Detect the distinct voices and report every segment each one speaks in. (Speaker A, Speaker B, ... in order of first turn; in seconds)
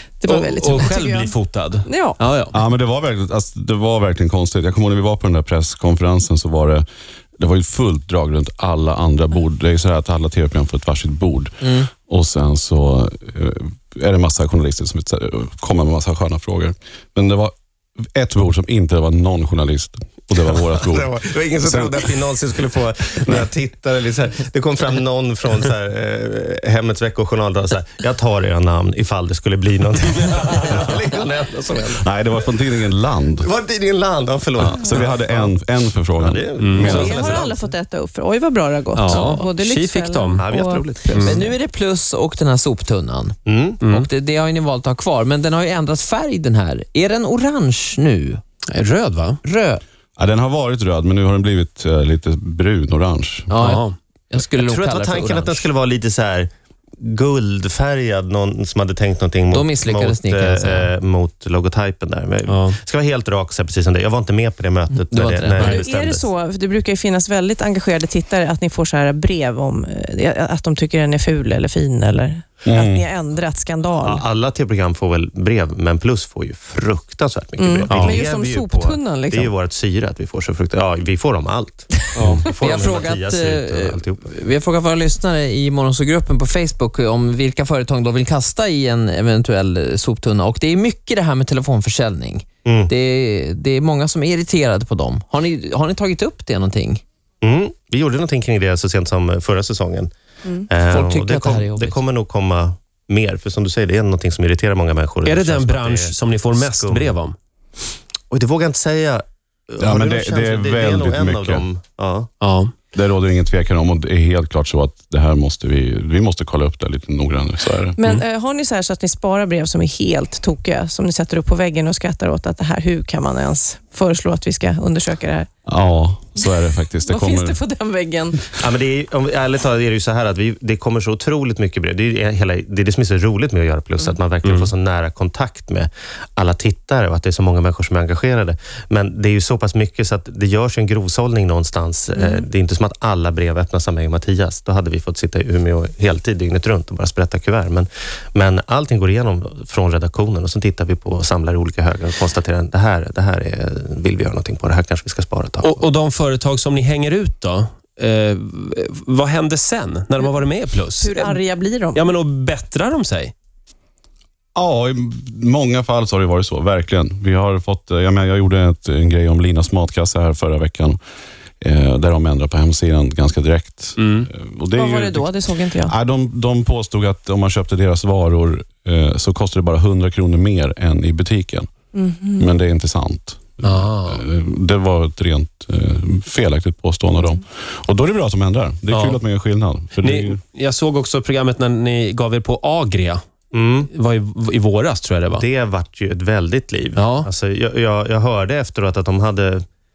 Speaker A: 0.2-1.3, 1.8-2.2, 36.8-40.9, 65.6-74.2, 77.6-79.5, 118.0-125.5, 126.4-128.5, 142.1-142.4, 161.0-162.0, 174.7-175.9, 181.9-182.5
Speaker B: 0.3-2.5, 36.6-37.4, 39.0-40.5, 41.1-41.4, 43.8-44.1, 48.7-49.4, 53.6-54.0, 62.5-62.8, 77.9-78.2, 82.2-82.5, 105.2-107.3, 112.4-112.7, 134.4-134.7, 155.6-161.4, 161.9-163.3, 174.0-174.3, 183.6-184.2, 188.9-189.2, 190.0-193.2, 193.9-195.4, 196.9-197.3
Speaker C: 2.5-6.8, 7.4-17.5, 18.1-22.1, 31.9-33.5, 34.6-37.4, 50.2-53.5, 72.7-73.0, 109.8-111.6, 112.9-118.0, 125.7-127.6, 164.5-171.0, 171.6-181.7, 182.4-190.4
Speaker D: 11.6-11.9, 39.1-39.4, 41.1-43.4, 43.9-48.4, 49.4-49.8, 53.5-55.7, 59.5-60.9, 64.9-65.8, 82.5-97.0, 100.9-102.0
Speaker E: 20.8-32.0, 33.4-35.5, 36.1-37.6, 40.4-41.4, 43.5-43.8, 54.5-66.3, 74.0-84.2, 92.6-92.9, 97.4-100.1, 100.7-107.2, 108.3-112.3, 128.6-155.8, 193.5-193.9, 195.3-199.6